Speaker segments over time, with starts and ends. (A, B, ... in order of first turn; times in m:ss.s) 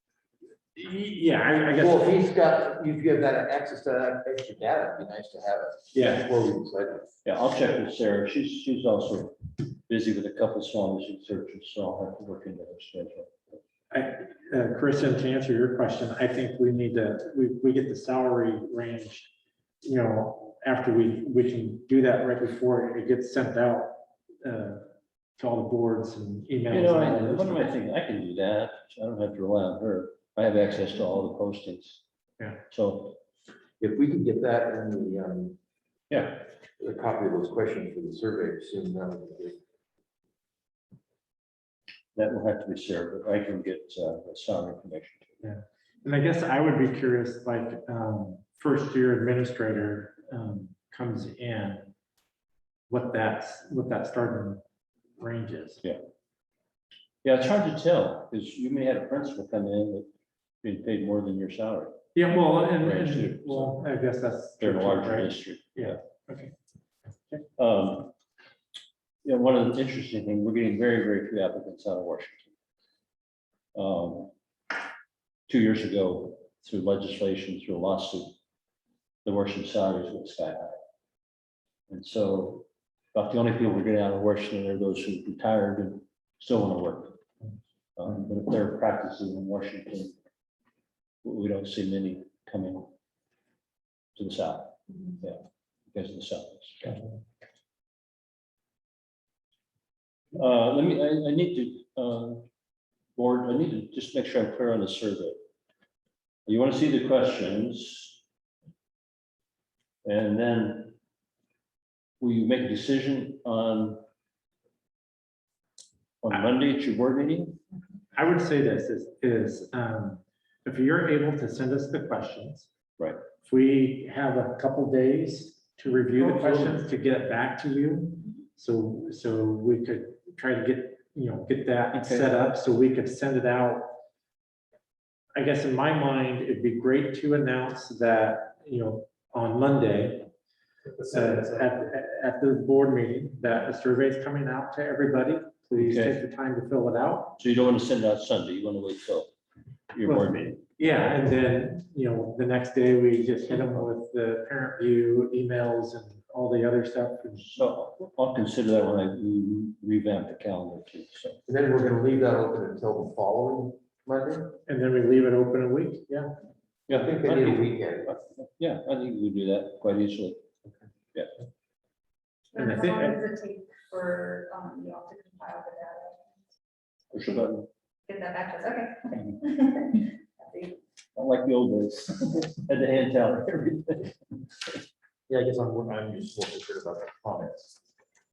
0:00.7-0:02.1 A
0:01.8-0:07.1 B
0:05.9-0:06.3 A
0:07.2-0:13.6 C
0:13.9-0:19.3 A
0:19.8-0:27.7 A
0:26.7-0:32.0 C
0:32.7-0:33.2 C
0:33.8-0:35.6 B
0:36.1-0:36.4 C
0:36.8-0:39.6 B
0:42.1-0:45.4 C
0:45.4-0:51.9 A
0:52.9-0:54.6 A
0:55.2-0:55.8 A
0:57.2-1:00.1 C
1:00.6-1:02.0 C
1:02.1-1:06.5 A
1:02.8-1:03.8 C
1:04.6-1:06.0 C
1:07.6-1:08.1 C
1:09.2-1:12.5 C
1:13.7-1:14.3 C
1:15.5-1:18.4 C
1:19.2-1:20.8 C
1:21.9-1:27.2 C
1:28.0-1:30.1 C
1:31.2-1:32.9 C
1:34.2-1:35.4 C
1:35.9-1:37.0 C
1:40.3-1:42.4 C
1:43.2-1:45.4 C
1:46.4-1:48.2 C
1:50.0-1:50.9 C
1:52.2-1:54.0 C
1:56.2-1:57.6 C
1:58.1-2:02.7 A
2:03.4-2:13.9 A
2:06.2-2:06.8 C
2:11.9-2:12.3 C
2:15.4-2:20.3 A
2:21.0-2:21.5 B
2:21.1-2:27.4 A
2:25.8-2:26.2 C
2:27.4-2:29.3 C
2:29.9-2:30.7 C
2:30.0-2:37.4 A
2:37.4-2:41.4 C
2:41.5-2:44.6 B
2:44.7-2:46.3 A
2:46.9-2:48.1 B
2:46.9-2:50.4 C
2:52.5-2:56.3 D
2:52.5-2:53.2 A
2:57.1-2:57.7 C
2:58.1-3:00.8 D
3:01.1-3:04.4 C
3:05.3-3:07.8 B